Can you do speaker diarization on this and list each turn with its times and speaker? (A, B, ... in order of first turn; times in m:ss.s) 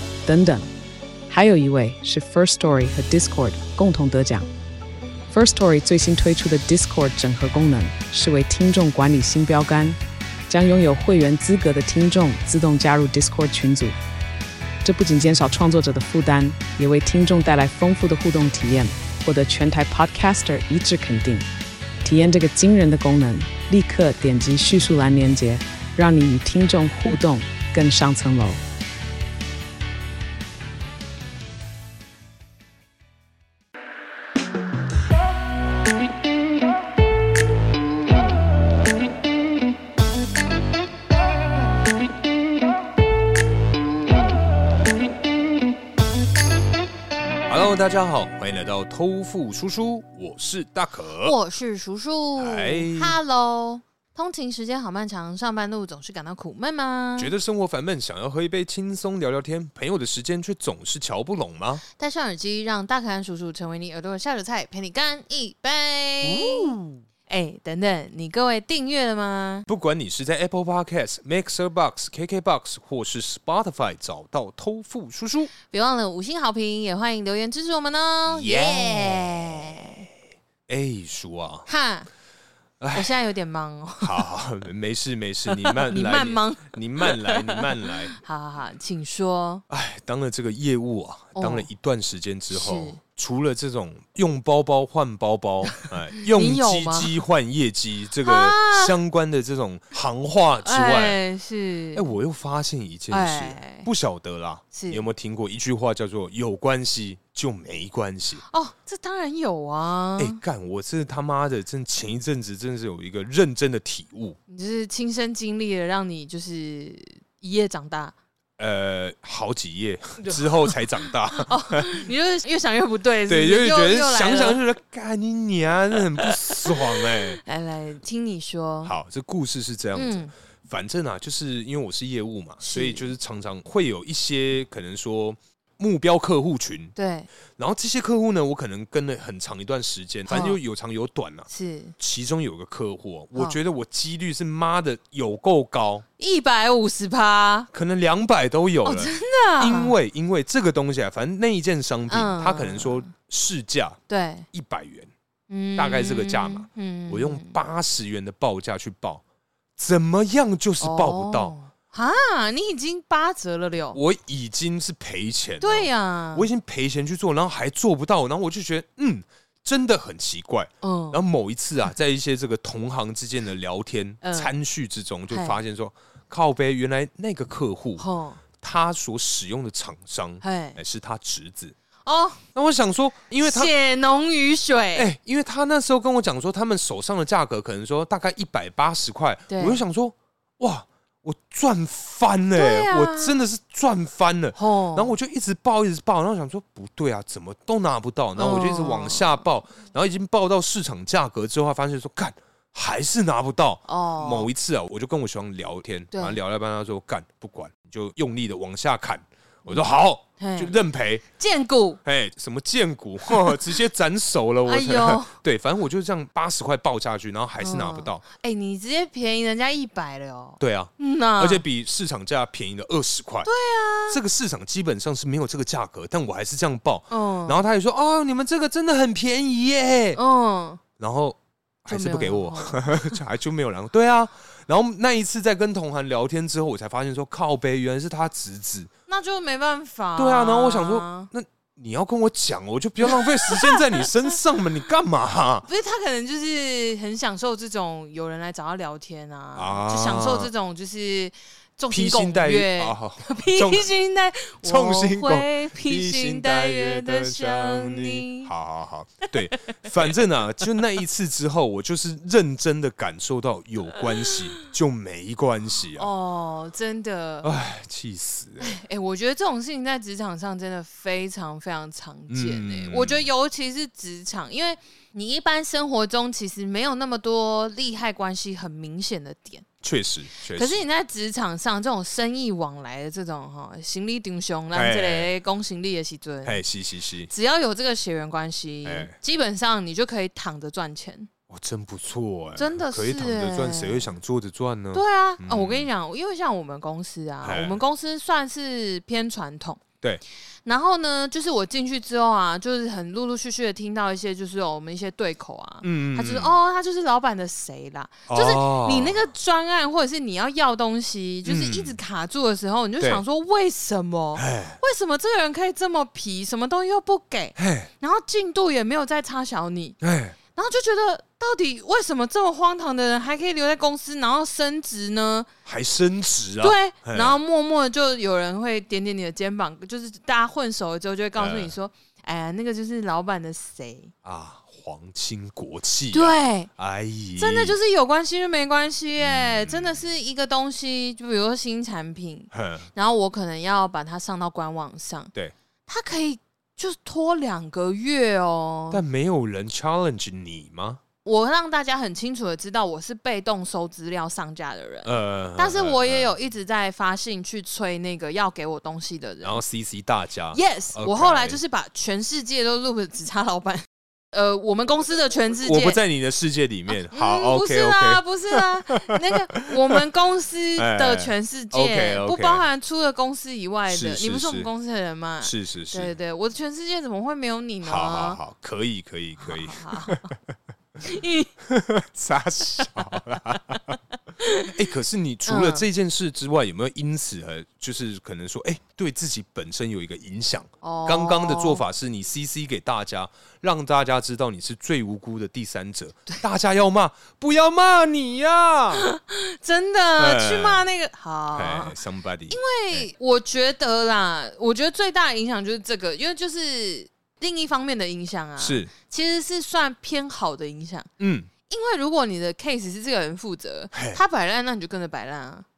0:00.3-0:00.7 A
0:01.3-0:04.5 A
0:05.3-0:14.0 A
0:14.8-0:21.5 A
0:22.0-0:28.6 A
0:47.5-0:51.4 B
0:51.2-0:57.3 C
0:52.4-0:53.2 B
0:57.2-1:01.8 B
1:01.9-1:06.8 C
1:06.2-1:07.0 B
1:07.3-1:09.7 C
1:09.7-1:15.5 B
1:15.6-1:20.1 C
1:18.3-1:19.9 B
1:20.7-1:21.7 B
1:21.7-1:22.1 C
1:22.8-1:23.2 B
1:22.9-1:24.2 C
1:24.0-1:28.1 B
1:25.5-1:29.6 C
1:29.7-1:41.2 B
1:31.4-1:31.7 C
1:32.5-1:33.0 C
1:35.8-1:37.1 C
1:38.2-1:39.0 C
1:40.6-1:42.1 C
1:41.9-1:48.4 B
1:43.1-1:43.9 C
1:44.7-1:45.0 C
1:48.5-1:50.4 C
1:50.2-1:54.4 B
1:54.5-1:58.2 C
1:58.6-2:02.0 B
2:00.2-2:04.6 C
2:03.3-2:07.4 B
2:06.2-2:08.9 C
2:08.8-2:16.9 B
2:10.0-2:10.3 C
2:12.6-2:13.1 C
2:17.0-2:17.3 C
2:17.6-2:26.0 B
2:20.3-2:20.6 C
2:21.5-2:22.0 C
2:26.2-2:27.7 C
2:27.7-2:34.0 B
2:28.8-2:30.0 C
2:32.1-2:33.1 C
2:34.1-2:34.5 C
2:34.5-2:35.1 B
2:35.5-2:37.6 C
2:35.8-2:39.2 B
2:39.8-2:41.6 B
2:40.8-2:44.0 C
2:43.9-2:58.0 B
2:45.6-2:46.5 C
2:50.8-2:51.2 C
2:54.2-2:54.5 C
2:55.3-2:55.6 C
2:58.0-2:58.4 C
2:58.6-3:01.8 B
3:00.4-3:00.8 C
3:02.0-3:02.4 C
3:02.6-3:03.7 B
3:03.4-3:05.1 C
3:05.0-3:31.2 B
3:09.5-3:09.8 C
3:12.5-3:13.4 C
3:14.6-3:15.1 C
3:18.4-3:19.4 C
3:23.9-3:24.5 C
3:26.1-3:26.4 C
3:30.4-3:30.8 C
3:31.4-3:32.0 C
3:32.0-3:38.2 B
3:34.7-3:35.4 C
3:37.6-3:41.6 C
3:40.6-3:43.5 B
3:43.4-3:44.2 C
3:44.1-3:50.2 B
3:47.1-3:47.6 C
3:50.2-3:50.8 C
3:51.0-3:58.9 B
3:51.9-3:53.2 C
3:59.1-4:01.3 C
4:00.2-4:05.7 B
4:03.1-4:04.1 C
4:05.7-4:18.5 C
4:09.6-4:10.5 B
4:11.9-4:13.9 B
4:14.6-4:26.1 B
4:19.2-4:20.1 C
4:24.3-4:24.6 C
4:26.0-4:27.5 C
4:27.4-4:28.8 B
4:28.6-4:39.7 C
4:32.3-4:33.3 B
4:39.8-4:40.8 B
4:40.5-4:46.6 C
4:44.7-4:45.3 B
4:46.4-4:47.3 B
4:47.3-4:51.3 C
4:48.8-4:49.2 B
4:51.5-4:55.9 B
4:52.6-4:54.1 C
4:54.9-4:59.8 C
4:57.4-4:57.8 B
5:00.6-5:20.0 C
5:05.8-5:06.6 B
5:08.3-5:09.3 B
5:11.4-5:12.0 B
5:14.4-5:14.8 B
5:17.6-5:17.9 B
5:20.0-5:20.4 B
5:20.5-5:25.5 C
5:25.7-5:27.4 B
5:26.6-5:34.1 C
5:31.4-5:31.7 B
5:34.2-5:37.8 B
5:36.1-5:36.7 C
5:37.4-5:45.3 C
5:39.2-5:40.0 B
5:42.5-5:42.9 B
5:45.9-5:49.0 C
5:48.9-5:51.0 B
5:51.2-5:59.6 C
5:55.0-5:56.3 B
5:59.4-6:01.6 B
6:00.5-6:06.0 C
6:05.6-6:10.0 B
6:07.1-6:18.4 C
6:10.8-6:12.6 B
6:13.9-6:14.7 B
6:15.4-6:16.1 B
6:17.8-6:20.3 B
6:19.4-6:20.3 C
6:21.0-6:21.5 C
6:21.6-6:24.0 B
6:22.8-6:23.8 C
6:24.4-6:24.7 C
6:24.7-6:39.1 B
6:25.5-6:25.8 C
6:30.8-6:31.8 C
6:38.9-6:42.0 C
6:40.2-6:40.8 B
6:41.5-6:43.1 B
6:42.5-6:51.1 C
6:48.6-6:48.9 B
6:51.2-6:51.5 B
6:51.7-6:55.7 C
6:53.9-6:54.2 B